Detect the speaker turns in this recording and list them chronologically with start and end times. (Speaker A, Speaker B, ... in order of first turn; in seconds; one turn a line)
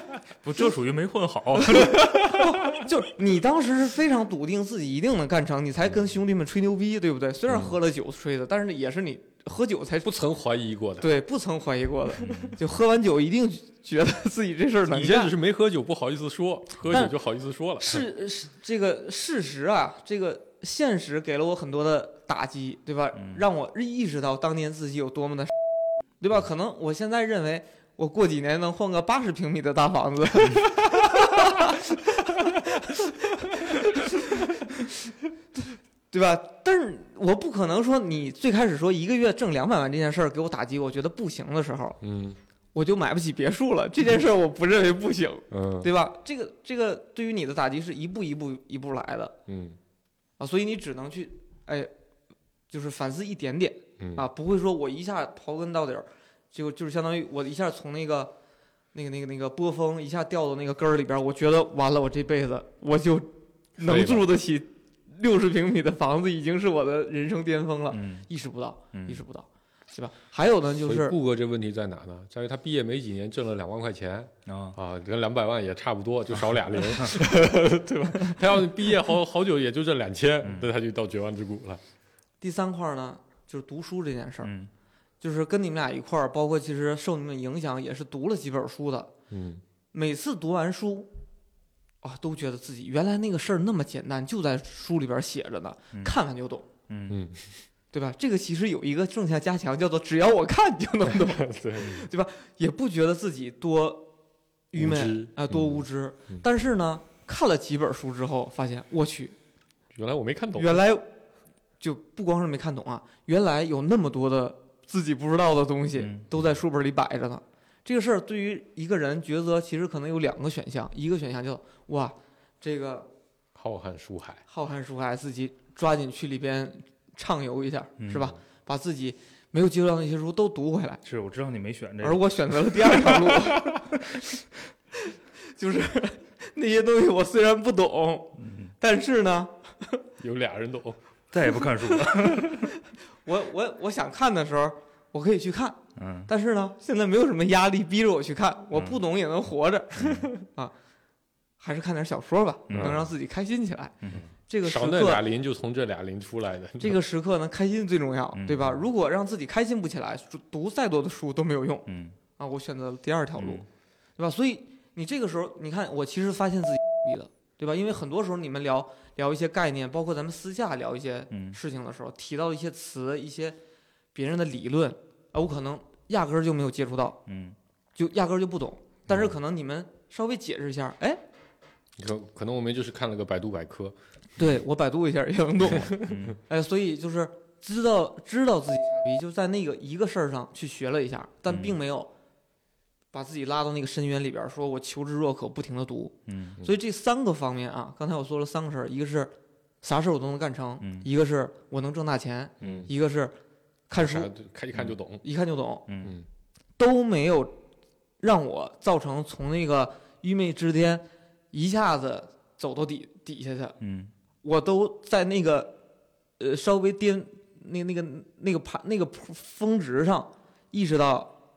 Speaker A: 0.4-2.4
Speaker B: 1.8-10.1
Speaker C: 7.5-7.8
Speaker C: 10.0-11.1
Speaker B: 11.0-15.3
Speaker A: 12.2-12.5
Speaker C: 14.9-18.1
Speaker B: 17.8-25.6
Speaker A: 23.1-23.4
Speaker B: 26.2-34.9
Speaker B: 36.1-42.0
Speaker C: 42.0-42.4
Speaker B: 42.7-49.4
Speaker C: 45.5-45.9
Speaker C: 49.5-49.8
Speaker B: 50.4-51.9
Speaker B: 52.7-58.3
Speaker C: 54.0-54.2
Speaker B: 58.9-71.2
Speaker C: 63.8-64.3
Speaker A: 67.9-68.3
Speaker A: 68.9-69.2
Speaker C: 70.8-81.8
Speaker A: 74.5-74.8
Speaker A: 80.4-80.7
Speaker B: 82.4-84.5
Speaker A: 84.4-84.7
Speaker B: 85.2-89.1
Speaker C: 89.3-89.6
Speaker B: 89.9-91.1
Speaker B: 92.0-96.7
Speaker A: 96.9-97.2
Speaker C: 97.1-97.5
Speaker B: 97.9-104.1
Speaker C: 101.1-102.1
Speaker B: 104.7-109.3
Speaker C: 104.7-106.4
Speaker C: 109.9-110.8
Speaker B: 110.5-111.1
Speaker B: 111.8-123.1
Speaker A: 116.0-116.2
Speaker C: 123.5-124.4
Speaker B: 124.5-131.0
Speaker A: 128.0-128.3
Speaker A: 131.0-133.2
Speaker B: 132.0-133.9
Speaker B: 135.5-140.0
Speaker A: 138.4-138.7
Speaker C: 140.2-141.0
Speaker A: 141.3-142.7
Speaker B: 143.2-150.7
Speaker A: 145.9-146.3
Speaker A: 148.7-149.0
Speaker A: 150.0-150.3
Speaker B: 151.6-153.9
Speaker A: 152.7-153.1
Speaker C: 152.7-153.1
Speaker C: 154.1-157.0
Speaker B: 154.5-155.2
Speaker B: 156.8-163.6
Speaker A: 158.3-158.7
Speaker A: 161.9-162.2
Speaker A: 163.3-163.6
Speaker B: 164.2-173.6
Speaker A: 171.3-171.6
Speaker B: 174.1-177.2
Speaker A: 177.3-177.6
Speaker B: 177.9-181.2
Speaker C: 182.0-183.9
Speaker B: 184.4-192.1
Speaker A: 186.0-186.4
Speaker A: 191.5-191.8
Speaker B: 193.1-203.3
Speaker A: 196.3-196.6
Speaker A: 200.8-201.1
Speaker A: 202.6-202.8
Speaker C: 202.6-202.9
Speaker B: 203.9-204.3
Speaker C: 204.0-205.2
Speaker B: 205.2-205.8
Speaker A: 205.9-206.2
Speaker B: 206.8-207.6
Speaker B: 208.2-213.8
Speaker A: 213.8-214.1
Speaker B: 214.4-215.8
Speaker B: 216.4-221.3